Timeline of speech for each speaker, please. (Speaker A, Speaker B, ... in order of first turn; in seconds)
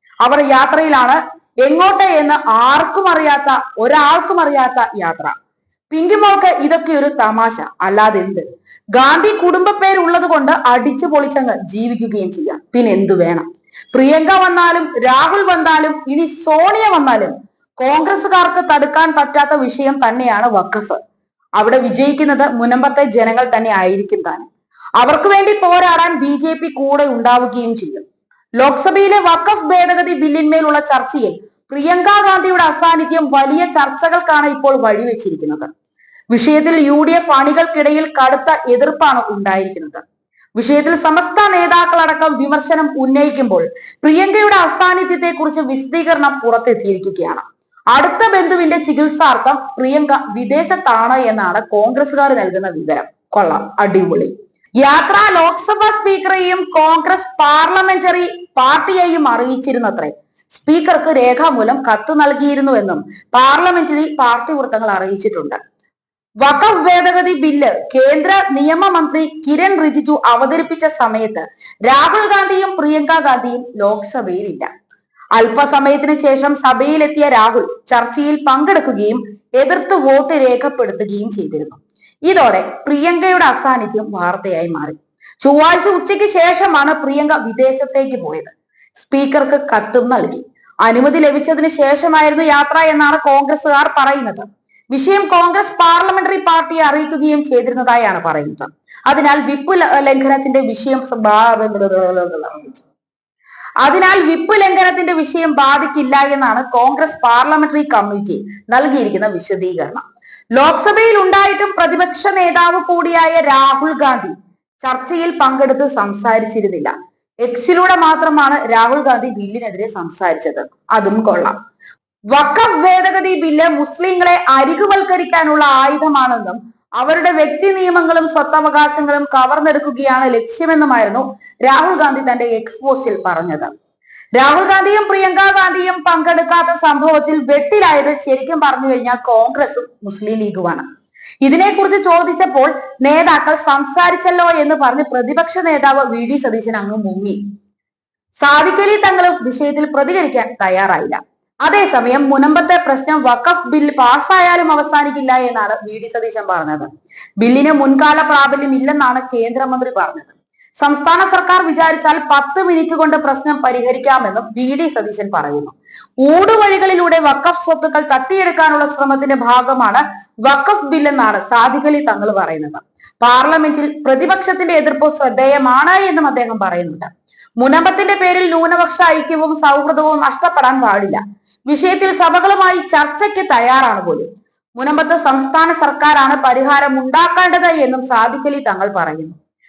Speaker A: 0.2-5.3, 5.9-21.0, 21.6-24.5, 25.0-28.0, 28.6-35.7, 36.3-40.0, 40.6-65.6, 66.4-74.7, 75.3-102.9, 103.8-116.9, 117.4-121.5, 122.3-133.7, 134.3-140.8, 141.4-147.4, 148.4-189.4